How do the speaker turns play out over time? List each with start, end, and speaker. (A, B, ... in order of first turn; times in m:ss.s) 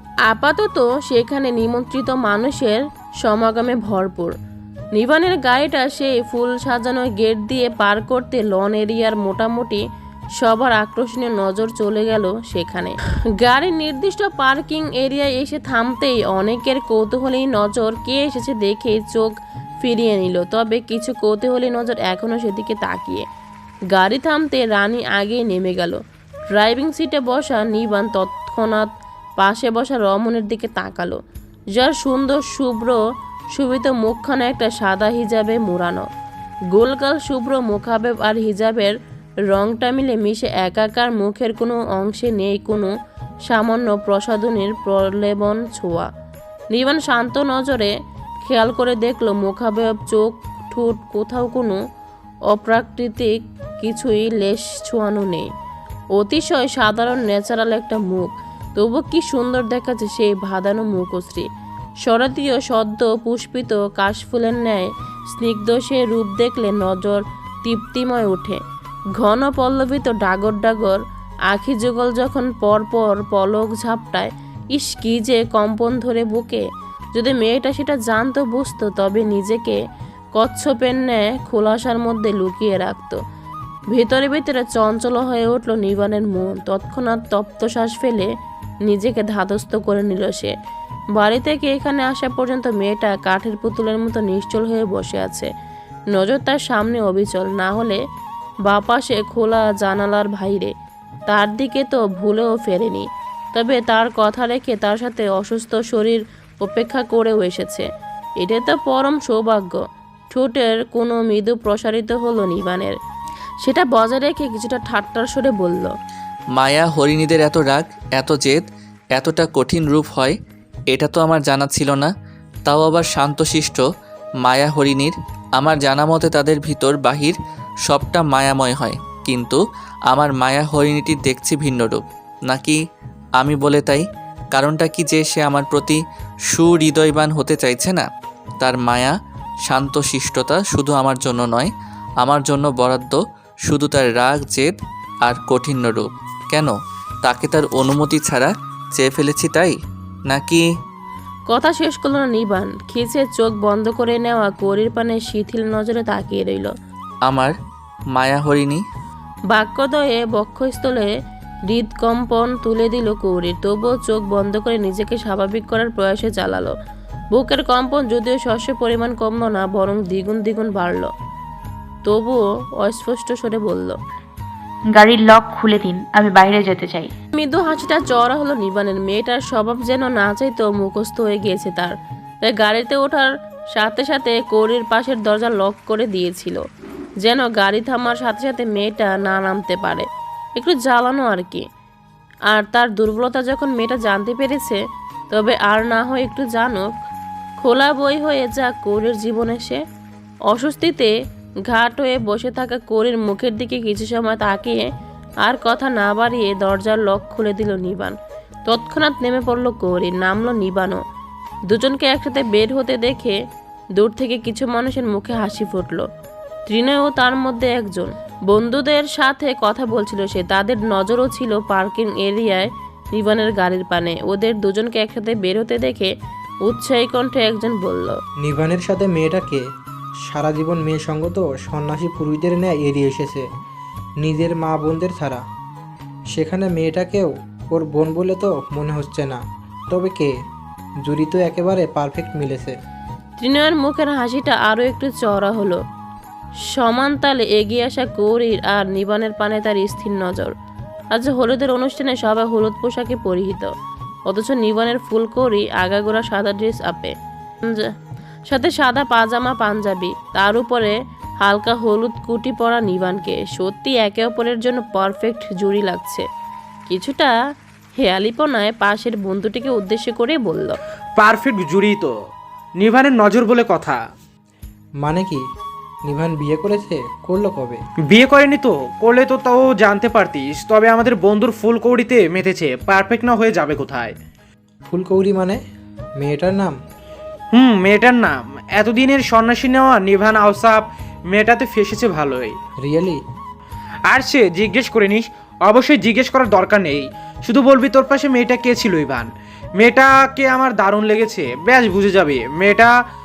0:00.3-0:04.4 A
0:05.0-0:09.8 A
0:10.4-0:23.2 A
0:23.9-0:26.0 A
0:26.5-0:28.9 A
0:29.4-0:31.2 A
0:31.7-0:33.0 A
0:33.5-0:36.0 A
0:36.7-0:38.9 A
0:39.5-0:42.9 A
0:43.5-0:46.1 A
0:46.7-0:47.9 A
0:48.4-0:51.8 A
0:52.5-0:55.5 A
0:56.2-1:01.5 A
1:02.0-1:08.6 A
1:09.2-1:16.6 A
1:17.2-1:19.8 A
1:20.4-1:23.2 A
1:23.9-1:28.3 A
1:28.9-1:30.5 A
1:31.2-1:35.5 A
1:36.1-1:38.0 A
1:38.7-1:40.7 A
1:41.3-1:47.8 A
1:48.4-1:53.0 A
1:53.6-1:55.9 A
1:56.6-1:58.6 B
1:59.2-2:00.4 B
2:00.9-2:02.1 B
2:02.6-2:03.8 B
2:04.4-2:12.8 B
2:13.4-2:16.0 B
2:16.5-2:18.1 B
2:18.6-2:19.1 B
2:19.7-2:21.7 B
2:22.2-2:24.7 B
2:25.2-2:26.7 B
2:27.2-2:29.7 B
2:30.3-2:30.6 B
2:31.5-2:36.7 A
2:37.2-2:37.5 B
2:38.1-2:38.8 B
2:39.5-2:41.1 A
2:41.7-2:46.7 A
2:47.3-2:51.1 A
2:52.0-2:54.0 A
2:55.0-2:57.1 C
2:57.4-3:06.6 A
3:07.2-3:10.1 A
3:10.6-3:11.6 A
3:12.5-3:14.8 A
3:15.3-3:16.9 A
3:17.6-3:19.8 A
3:20.5-3:21.1 A
3:21.7-3:24.9 A
3:25.4-3:28.2 A
3:28.7-3:31.0 A
3:31.7-3:33.4 A
3:34.0-3:36.1 A
3:36.7-3:46.1 A
3:46.6-3:48.2 A
3:48.4-3:49.6 D
3:50.3-3:53.5 D
3:54.2-3:55.4 D
3:56.3-4:00.3 D
4:01.0-4:02.7 D
4:03.4-4:05.8 A
4:06.7-4:10.5 A
4:11.1-4:13.7 A
4:14.3-4:17.9 A
4:18.5-4:26.2 A
4:26.9-4:27.3 A
4:28.0-4:30.8 A
4:31.2-4:32.1 E
4:32.8-4:34.0 E
4:35.0-4:35.4 D
4:36.1-4:37.8 D
4:38.1-4:44.1 E
4:44.9-4:45.6 D
4:46.2-4:46.8 D
4:47.5-4:52.6 E
4:52.8-4:53.2 D
4:54.1-5:02.9 E